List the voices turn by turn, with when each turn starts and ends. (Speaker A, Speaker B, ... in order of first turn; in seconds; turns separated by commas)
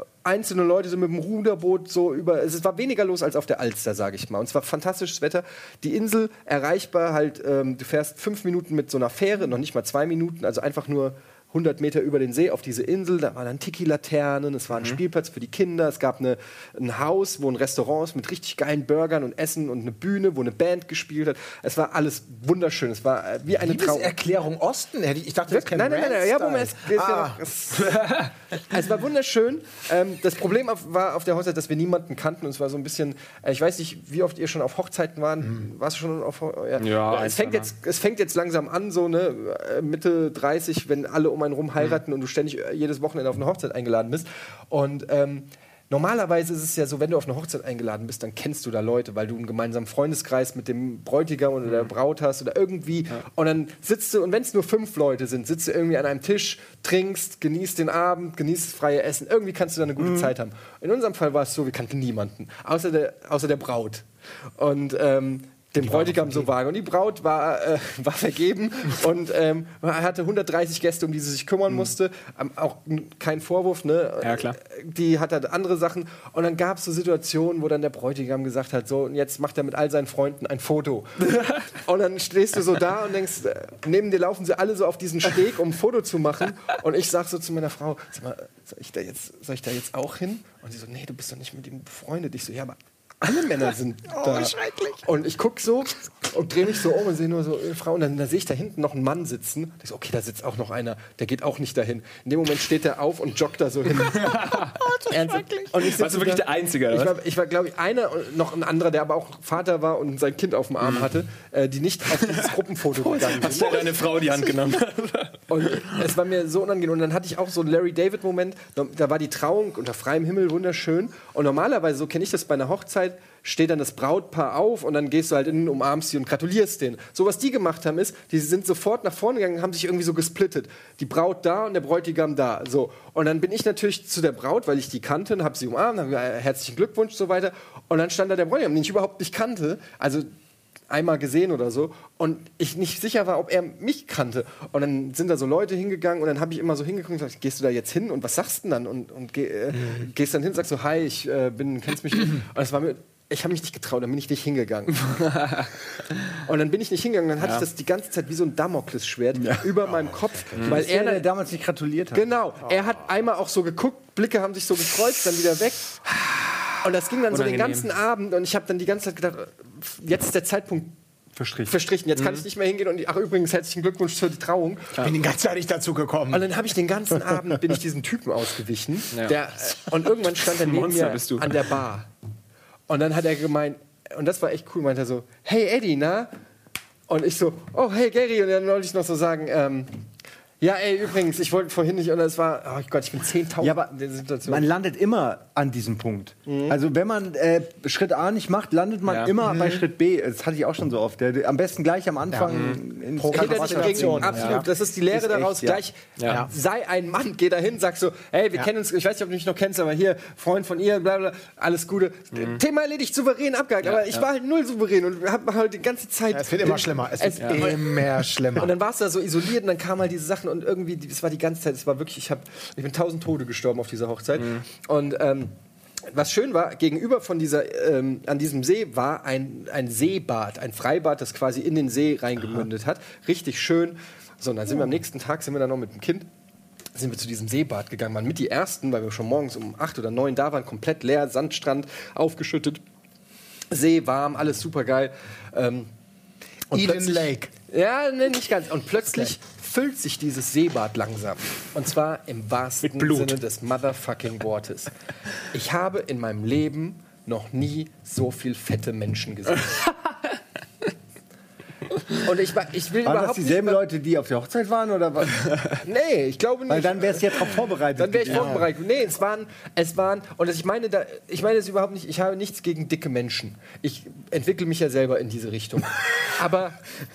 Speaker A: 0.2-24.1, Speaker B: 23.6-27.4, Speaker A: 25.5-64.0, Speaker C: 36.8-37.7, Speaker D: 60.0-60.3, Speaker A: 64.6-104.5, Speaker C: 65.9-66.5, Speaker C: 74.2-74.6, Speaker B: 94.1-95.1, Speaker C: 104.0-104.8, Speaker B: 104.6-105.7, Speaker A: 105.1-113.9, Speaker C: 105.8-107.1, Speaker C: 110.8-111.1, Speaker C: 112.2-112.5, Speaker C: 113.0-116.0, Speaker B: 113.3-114.5, Speaker A: 115.5-140.3, Speaker A: 140.9-155.1, Speaker C: 155.0-155.7, Speaker A: 156.3-161.2, Speaker D: 159.3-159.9, Speaker C: 160.6-160.8, Speaker D: 160.6-162.2, Speaker A: 162.1-166.0, Speaker A: 166.8-170.9, Speaker C: 167.3-167.9, Speaker D: 171.3-171.7, Speaker A: 171.7-175.0, Speaker C: 172.2-172.4, Speaker B: 175.0-176.5, Speaker A: 176.3-182.1, Speaker C: 180.4-181.5, Speaker A: 182.9-186.3, Speaker A: 187.1-189.9, Speaker A: 190.6-194.7, Speaker D: 193.6-193.9, Speaker D: 194.4-205.8, Speaker A: 196.4-196.8, Speaker C: 199.1-199.3, Speaker B: 199.4-199.8, Speaker B: 202.3-204.7, Speaker C: 202.5-202.8, Speaker A: 203.3-225.5, Speaker C: 206.2-206.5, Speaker B: 206.2-206.5, Speaker C: 212.3-212.6, Speaker C: 213.8-214.2, Speaker B: 216.3-218.7, Speaker C: 217.4-217.7, Speaker C: 224.4-224.6, Speaker A: 226.1-236.3, Speaker A: 236.9-242.8, Speaker A: 243.7-245.9, Speaker B: 246.7-247.5, Speaker A: 246.7-254.9, Speaker C: 252.8-253.3, Speaker A: 255.5-259.9, Speaker A: 262.1-263.8, Speaker D: 263.0-265.8, Speaker A: 265.8-267.4, Speaker D: 266.7-268.7, Speaker A: 267.9-276.8